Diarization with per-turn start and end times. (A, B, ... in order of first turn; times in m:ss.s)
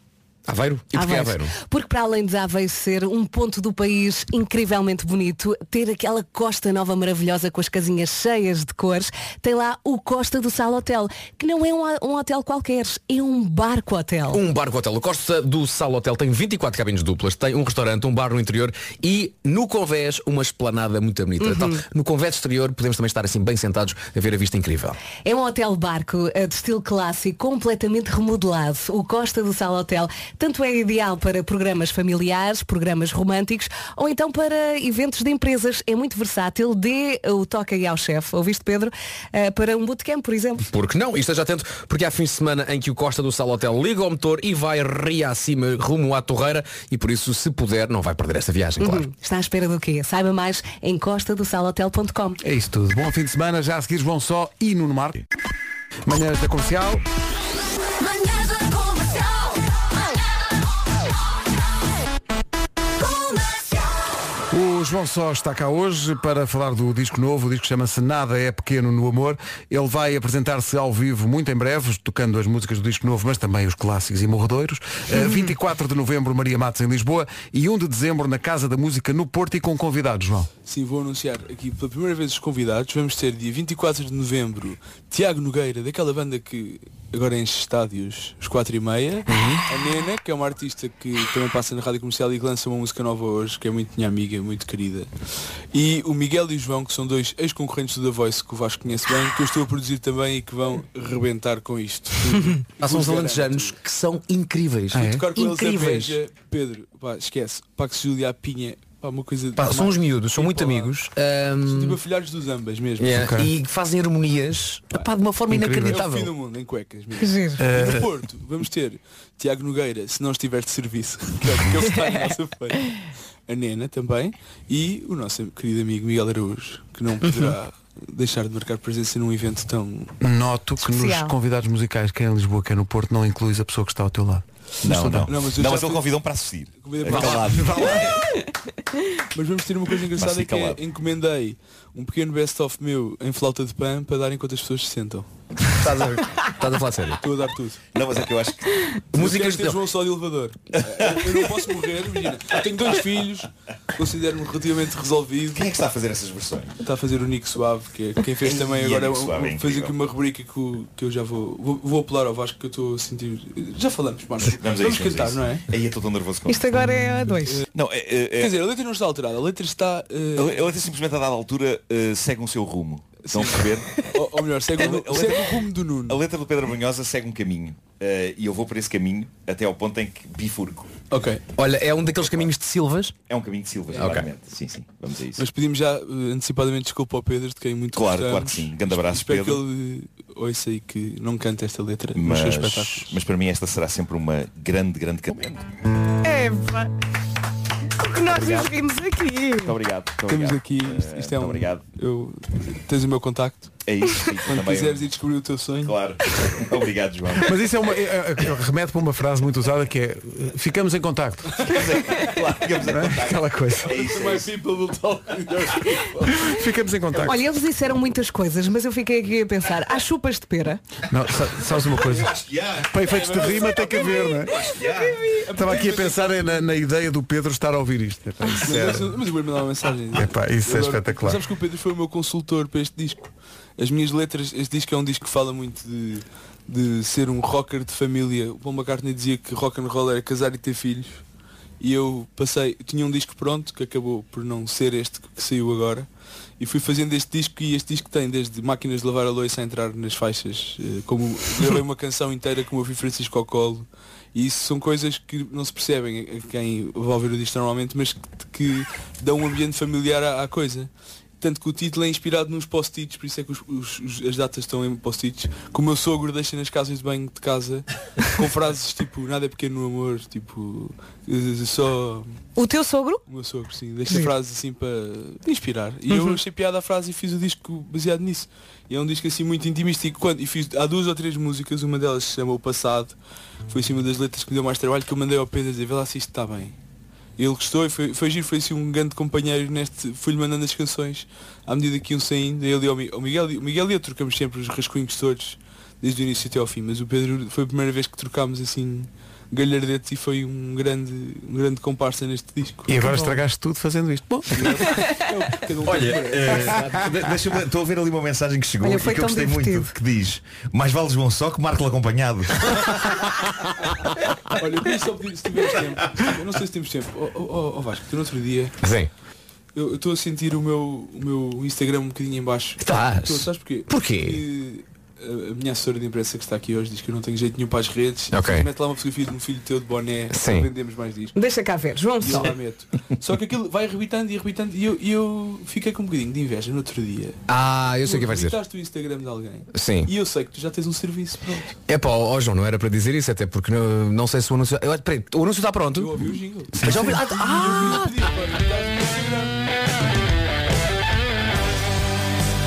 0:00.5-0:01.5 A
0:00.9-0:14.4 B
0:14.3-0:25.0 A
0:21.4-0:21.8 B
0:25.2-0:40.7 B
0:40.7-0:49.1 A
0:48.8-0:52.4 B
0:52.4-0:55.2 C
0:56.1-0:57.0 C
1:04.5-1:20.5 C
1:20.6-1:35.1 D
1:29.3-1:29.6 C
1:35.7-1:43.8 D
1:42.8-1:46.2 A
1:44.9-1:51.1 D
1:49.6-1:52.0 A
1:51.7-1:53.3 D
1:53.0-1:56.3 A
1:53.2-1:53.5 C
1:55.5-1:56.0 C
1:55.8-2:10.1 D
1:57.2-1:57.6 B
1:57.6-1:58.1 C
2:10.2-2:15.3 C
2:10.8-2:11.3 B
2:14.8-2:18.2 E
2:15.3-2:16.1 D
2:16.8-2:18.0 D
2:17.1-2:18.2 C
2:19.3-2:25.3 D
2:20.2-2:20.8 E
2:25.8-2:27.2 A
2:27.2-2:27.8 D
2:27.9-2:29.0 E
2:29.1-2:29.8 A
2:29.1-2:35.7 D
2:30.8-2:31.7 E
2:32.5-2:33.0 E
2:35.5-2:36.8 E
2:36.8-2:45.7 D
2:38.4-2:40.0 E
2:44.4-2:46.9 E
2:46.5-2:47.6 B
2:47.7-2:48.6 E
2:48.4-2:50.7 D
2:50.4-2:54.1 E
2:53.2-2:56.2 D
2:54.8-3:00.9 E
3:01.1-3:01.4 D
3:01.6-3:03.1 A
3:03.3-3:05.4 E
3:04.0-3:04.3 A
3:05.4-3:13.1 D
3:07.9-3:09.6 E
3:12.1-3:15.7 E
3:16.2-3:16.9 B
3:18.0-3:19.7 B
3:18.2-3:18.7 E
3:19.6-3:21.8 E
3:20.3-3:23.7 D
3:23.8-3:25.1 E
3:24.4-3:26.0 D
3:25.8-3:27.6 E
3:27.4-3:31.6 C
3:31.6-3:34.5 E
3:31.7-3:32.4 D
3:32.9-3:34.0 C
3:33.9-3:36.5 D
3:36.3-3:37.4 C
3:37.2-3:40.8 B
3:41.1-3:42.3 C
3:41.3-3:45.4 E
3:42.9-3:44.6 C
3:43.0-3:46.6 D
3:45.5-3:49.2 C
3:48.6-4:01.2 D
3:50.1-3:51.4 C
4:01.8-4:06.1 D
4:06.6-4:32.4 D
4:32.6-4:33.2 B
4:33.3-4:43.2 D
4:36.1-4:36.4 B
4:43.7-4:46.8 D
4:47.4-5:03.1 D
5:02.9-5:04.8 C
5:04.5-5:06.8 D
5:05.8-5:13.4 E
5:05.9-5:07.5 A
5:08.8-5:09.9 B
5:14.6-5:18.8 D
5:18.8-5:19.1 A
5:19.7-5:31.3 D
5:22.8-5:24.4 A
5:28.3-5:28.7 A
5:30.3-5:30.7 A
5:31.4-5:32.5 B
5:32.2-5:37.4 D
5:37.5-5:38.6 A
5:38.0-5:41.7 D
5:39.7-5:40.1 A
5:41.9-5:46.1 A
5:45.9-5:49.6 D
5:46.8-5:47.3 C
5:46.8-5:48.3 A